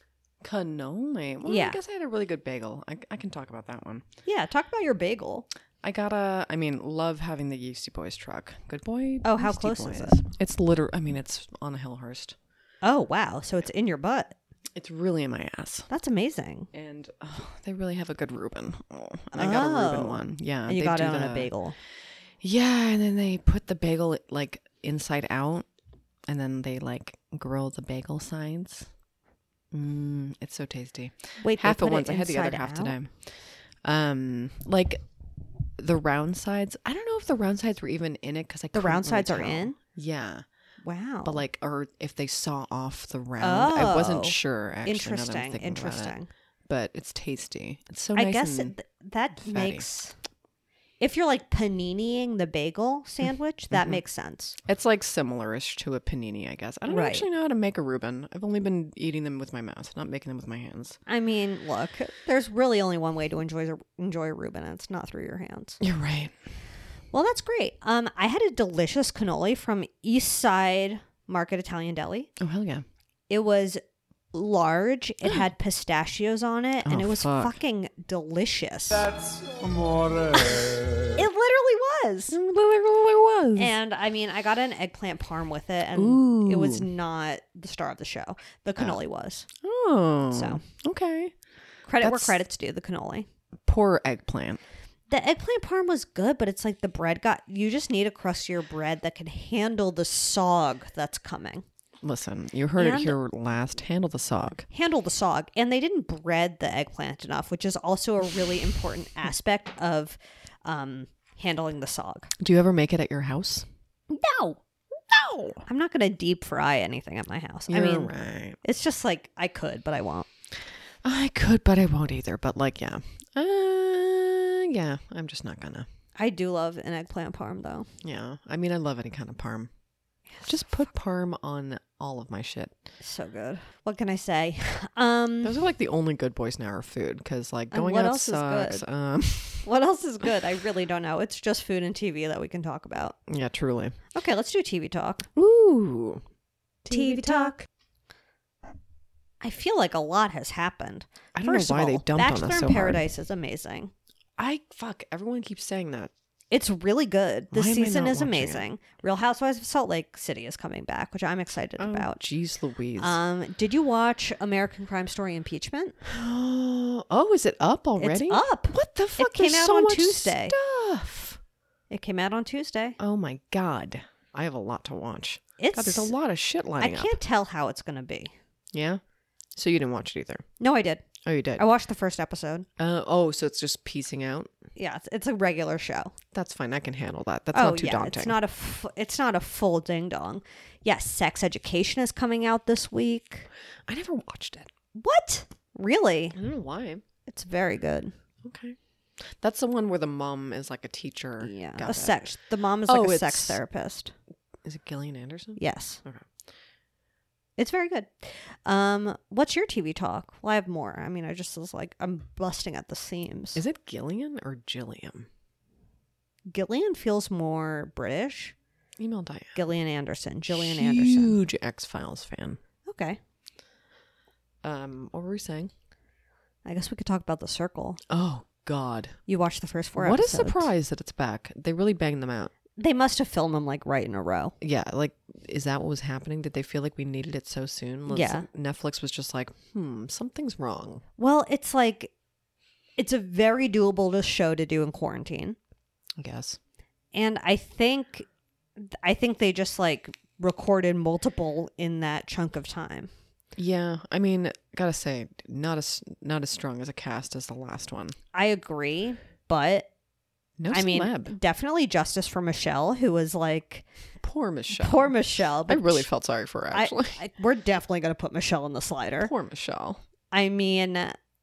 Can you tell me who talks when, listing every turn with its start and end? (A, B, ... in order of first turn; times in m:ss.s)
0:00.4-0:04.1 A
0:01.4-0:01.8 B
0:04.3-0:05.5 B
0:05.8-0:12.4 A
0:09.2-0:10.2 B
0:12.8-0:14.4 B
0:14.8-0:15.9 A
0:15.9-0:16.7 B
0:16.7-0:21.5 A
0:19.3-0:21.8 B
0:22.4-0:25.7 A
0:26.3-0:28.9 A
0:29.7-0:35.0 A
0:31.4-0:33.0 B
0:35.8-0:40.4 A
0:38.7-0:39.8 B
0:40.8-0:41.4 B
0:41.2-0:46.2 A
0:43.4-0:46.3 B
0:46.7-0:48.8 A
0:48.2-0:50.2 B
0:49.4-0:49.9 A
0:51.0-0:54.6 B
0:53.7-0:54.0 A
0:54.7-1:01.0 A
0:56.9-0:57.3 B
1:01.1-1:05.8 B
1:05.8-1:06.3 A
1:07.1-1:12.3 B
1:12.4-1:12.8 A
1:13.3-1:13.8 B
1:14.3-1:19.1 B
1:16.8-1:17.6 A
1:21.1-1:22.4 B
1:22.3-1:23.7 A
1:23.6-1:29.5 B
1:25.9-1:26.9 A
1:29.6-1:31.3 A
1:30.3-1:30.6 B
1:31.9-1:33.3 B
1:32.0-1:32.4 A
1:33.7-1:34.6 A
1:35.1-1:41.6 B
1:42.0-1:44.7 A
1:42.8-1:43.2 B
1:44.7-1:52.3 B
1:52.4-1:53.7 A
1:54.1-1:54.6 B
1:55.1-1:55.6 A
1:55.7-1:58.1 B
1:57.7-1:58.6 A
1:58.6-2:00.3 B
2:01.0-2:05.9 A
2:06.2-2:07.9 B
2:08.0-2:09.7 A
2:10.5-2:12.8 A
2:13.0-2:15.6 B
2:15.4-2:19.7 A
2:17.7-2:18.8 B
2:19.6-2:23.2 B
2:23.3-2:24.0 A
2:24.1-2:25.3 B
2:25.4-2:26.2 A
2:26.9-2:27.6 A
2:26.9-2:27.6 B
2:29.4-2:33.9 B
2:31.4-2:33.0 A
2:34.4-2:36.1 A
2:36.5-2:42.2 B
2:37.5-2:38.6 A
2:41.8-2:43.2 A
2:43.0-2:46.0 B
2:46.0-2:51.4 A
2:48.0-2:50.6 B
2:51.9-2:53.0 B
2:53.0-2:57.2 A
2:55.6-2:56.1 B
2:56.8-2:58.3 B
2:58.7-2:59.0 A
2:59.6-3:00.4 A
3:00.6-3:01.0 B
3:01.2-3:01.6 A
3:01.6-3:02.7 B
3:02.8-3:04.5 A
3:04.8-3:06.1 B
3:06.3-3:08.4 A
3:07.5-3:13.5 B
3:13.9-3:14.7 A
3:15.0-3:16.4 B
3:16.4-3:17.0 A
3:17.3-3:18.1 B
3:18.4-3:22.2 A
3:21.4-3:24.1 B
3:22.9-3:23.6 A
3:24.6-3:26.3 A
3:25.6-3:26.0 B
3:27.6-3:33.6 B
3:33.6-3:35.3 A
3:36.5-3:38.6 B
3:39.0-3:39.6 A
3:39.6-3:41.4 B
3:40.5-3:42.6 A
3:42.9-3:43.2 B
3:44.6-3:45.7 A
3:46.6-3:48.0 B
3:48.1-3:49.2 A
3:49.3-3:50.7 B
3:50.0-3:52.5 A
3:52.8-3:54.5 B
3:54.6-4:01.0 A
3:58.1-3:58.5 B
4:01.2-4:02.1 B
4:03.0-4:05.6 B
4:06.2-4:06.6 A
4:07.1-4:08.3 B
4:08.8-4:13.1 B
4:13.6-4:18.2 A
4:18.3-4:19.9 B
4:20.6-4:21.4 A
4:20.7-4:23.8 B
4:24.2-4:27.2 A
4:24.8-4:26.1 B
4:26.7-4:29.3 B
4:29.2-4:30.0 A
4:30.3-4:31.2 B